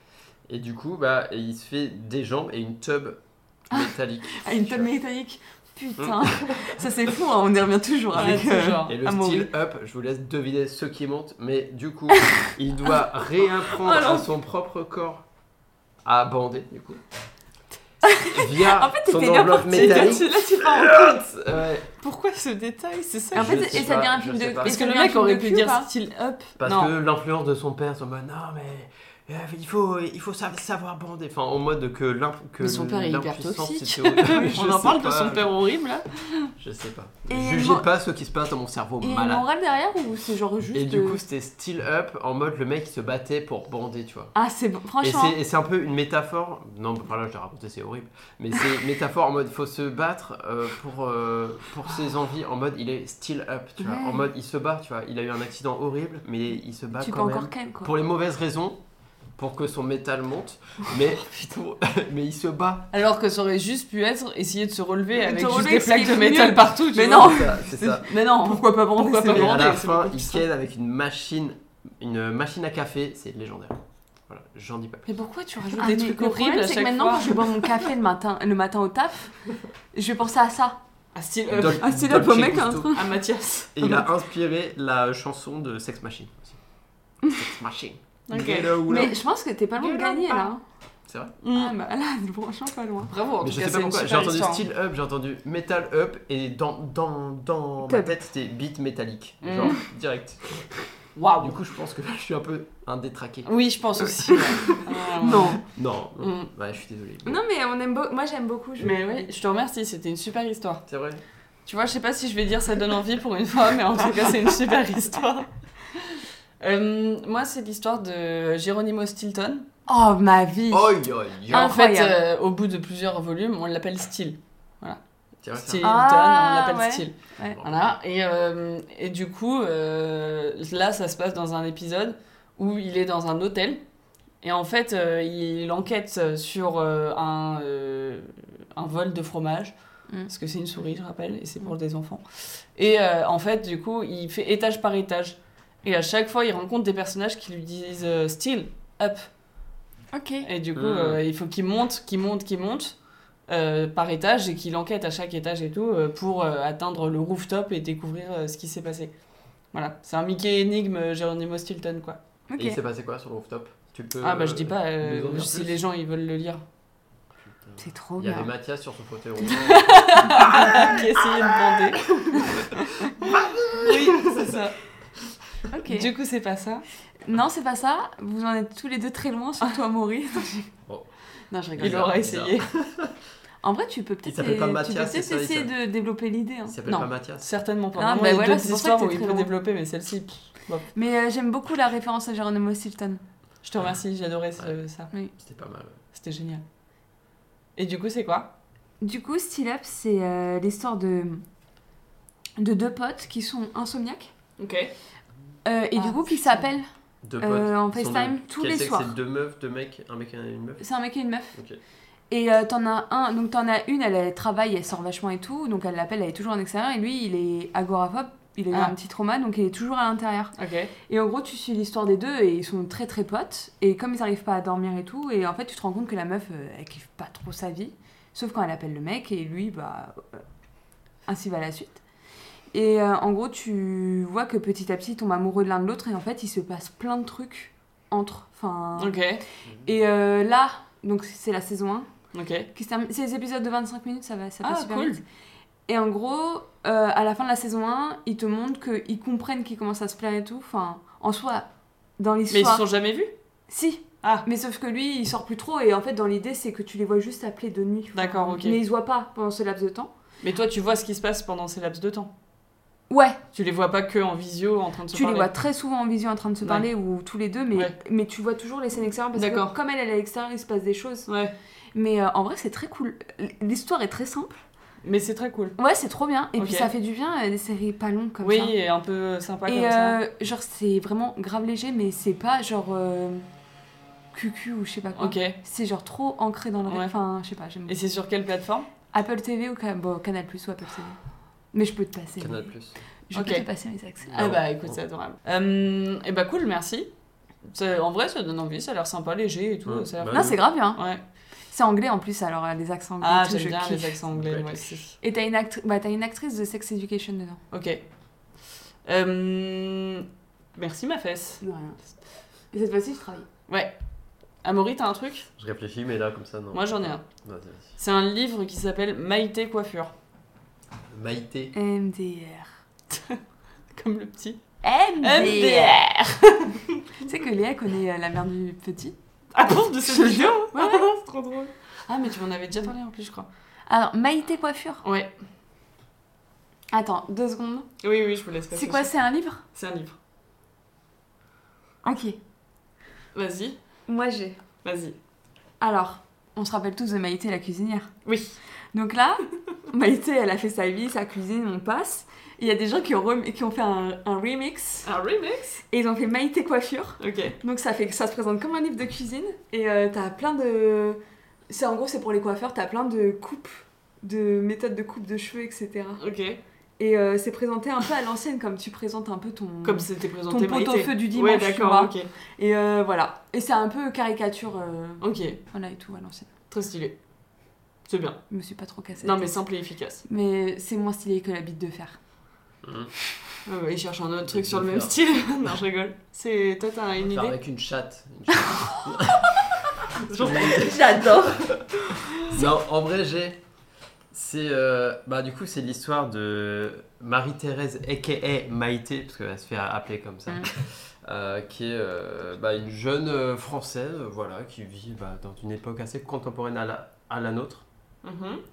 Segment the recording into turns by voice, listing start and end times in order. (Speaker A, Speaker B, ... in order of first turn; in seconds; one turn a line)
Speaker A: 0.5-4.9
Speaker B: 3.7-9.5
Speaker A: 6.0-6.7
Speaker C: 8.1-9.0
Speaker A: 8.1-15.3
Speaker A: 16.0-17.0
Speaker B: 18.1-21.2
Speaker A: 18.3-21.9
Speaker C: 19.7-20.3
Speaker C: 22.0-23.8
Speaker B: 23.3-25.9
Speaker A: 23.4-24.7
Speaker C: 24.6-26.9
Speaker A: 26.6-35.5
Speaker C: 32.6-36.5
Speaker A: 36.6-39.4
Speaker B: 37.3-37.9
Speaker B: 39.0-41.2
Speaker A: 40.7-44.3
Speaker B: 44.4-45.4
Speaker A: 45.0-58.8
Speaker B: 53.8-54.3
Speaker B: 57.0-57.9
Speaker A: 59.4-62.9
Speaker C: 62.9-70.5
Speaker B: 65.2-69.8
Speaker A: 67.2-68.1
Speaker A: 69.3-75.2
Speaker C: 75.1-77.9
Speaker B: 75.7-79.4
Speaker B: 79.9-80.8
Speaker C: 81.2-82.0
Speaker A: 81.5-82.9
Speaker B: 81.7-83.1
Speaker C: 82.9-84.0
Speaker A: 83.8-86.6
Speaker A: 87.2-89.2
Speaker C: 88.3-89.1
Speaker B: 88.8-90.6
Speaker C: 89.8-90.5
Speaker A: 91.1-91.3
Speaker C: 91.4-91.8
Speaker B: 91.5-93.1
Speaker C: 93.1-94.6
Speaker A: 93.4-100.7
Speaker B: 97.9-98.2
Speaker C: 99.4-99.8
Speaker C: 101.2-101.6
Speaker A: 101.4-104.2
Speaker C: 103.5-105.6
Speaker B: 104.3-105.6
Speaker A: 105.7-107.4
Speaker C: 106.2-106.5
Speaker B: 107.2-109.3
Speaker C: 108.8-110.8
Speaker A: 110.9-111.2
Speaker C: 111.7-119.7
Speaker B: 119.9-122.2
Speaker A: 120.7-121.8
Speaker C: 121.5-125.0
Speaker A: 125.4-125.8
Speaker C: 125.5-133.8
Speaker B: 125.8-127.6
Speaker A: 127.4-128.0
Speaker C: 134.4-139.8
Speaker C: 140.3-149.3
Speaker B: 150.1-150.5
Speaker C: 150.4-153.0
Speaker A: 150.8-151.2
Speaker C: 153.5-159.1
Speaker C: 159.7-162.2
Speaker B: 162.5-162.8
Speaker A: 162.6-165.8
Speaker C: 164.2-166.6
Speaker A: 167.4-171.0
Speaker B: 167.8-168.5
Speaker C: 169.5-174.8
Speaker B: 170.7-170.9
Speaker A: 172.2-174.6
Speaker B: 175.7-176.1
Speaker C: 175.9-176.8
Speaker B: 177.2-180.7
Speaker B: 181.5-182.2
Speaker A: 181.7-183.1
Speaker C: 181.8-182.7
Speaker B: 183.6-187.1
Speaker A: 184.2-185.7
Speaker A: 186.7-187.5
Speaker C: 187.0-190.9
Speaker B: 188.0-189.5
Speaker B: 190.9-193.2
Speaker C: 193.6-195.1
Speaker A: 195.4-196.0
Speaker C: 196.1-196.6
Speaker C: 197.8-198.5
Speaker B: 199.0-201.4
Speaker B: 202.6-204.3
Speaker C: 204.6-204.9
Speaker B: 205.7-206.9
Speaker C: 205.9-206.7
Speaker A: 207.2-210.8
Speaker B: 207.4-209.1
Speaker B: 210.8-211.6
Speaker B: 212.3-220.6
Speaker C: 220.6-220.9
Speaker B: 221.1-230.4
Speaker B: 231.2-232.0
Speaker B: 232.7-242.1
Speaker C: 239.0-239.4
Speaker C: 242.3-242.7
Speaker B: 242.7-245.2
Speaker C: 244.6-245.2
Speaker B: 245.9-251.7
Speaker B: 252.2-252.8
Speaker C: 252.5-253.3
Speaker B: 253.7-260.1
Speaker C: 258.1-258.8
Speaker C: 260.4-262.3
Speaker B: 263.1-263.4
Speaker C: 263.5-265.5
Speaker B: 265.1-271.3
Speaker C: 266.6-266.9
Speaker C: 269.4-269.8
Speaker C: 271.3-271.5
Speaker B: 271.9-274.6
Speaker C: 275.1-275.8
Speaker B: 275.8-278.7
Speaker C: 276.6-276.9
Speaker C: 278.4-280.2
Speaker B: 279.7-283.5
Speaker B: 284.3-288.0
Speaker C: 285.1-285.6
Speaker C: 286.9-287.1
Speaker C: 287.9-288.9
Speaker B: 289.1-291.2
Speaker B: 291.7-292.7
Speaker A: 292.4-293.0
Speaker B: 293.3-294.4
Speaker C: 293.3-293.7
Speaker A: 294.3-295.0
Speaker C: 294.3-297.1
Speaker C: 297.6-301.2
Speaker A: 299.9-300.6
Speaker B: 300.3-301.1
Speaker B: 301.7-304.2
Speaker C: 303.2-305.1
Speaker A: 304.4-305.1
Speaker B: 305.2-307.6
Speaker C: 307.7-308.1
Speaker C: 309.1-311.6
Speaker B: 311.6-313.5
Speaker C: 313.7-313.9
Speaker C: 314.6-315.5
Speaker A: 315.6-318.0
Speaker C: 316.7-317.2
Speaker C: 318.0-320.1
Speaker A: 321.1-321.7
Speaker B: 321.7-322.8
Speaker C: 323.1-323.4
Speaker C: 323.9-324.6
Speaker B: 324.8-326.0
Speaker C: 325.2-327.1
Speaker B: 327.1-329.2
Speaker C: 329.6-333.5
Speaker B: 330.0-331.1
Speaker B: 333.9-335.0
Speaker C: 335.0-335.3
Speaker B: 336.9-338.0
Speaker C: 338.0-339.1
Speaker B: 338.7-339.6
Speaker C: 339.7-340.2
Speaker B: 342.0-342.4
Speaker C: 343.3-343.8
Speaker B: 344.1-344.6
Speaker C: 344.8-345.2
Speaker B: 345.8-348.2
Speaker C: 348.3-348.6
Speaker B: 348.9-355.1
Speaker C: 355.0-355.8
Speaker B: 355.9-366.2
Speaker C: 357.2-357.6
Speaker C: 366.2-366.6
Speaker B: 367.0-376.5
Speaker C: 369.8-372.3
Speaker C: 375.2-375.6
Speaker C: 376.7-377.2
Speaker C: 378.1-378.4
Speaker B: 378.5-379.6
Speaker C: 379.2-380.2
Speaker B: 380.2-382.2
Speaker A: 382.8-383.1
Speaker C: 383.6-387.6
Speaker A: 384.5-385.5
Speaker A: 387.2-393.6
Speaker C: 390.2-390.8
Speaker B: 390.4-391.7
Speaker A: 394.3-407.9
Speaker C: 408.2-408.6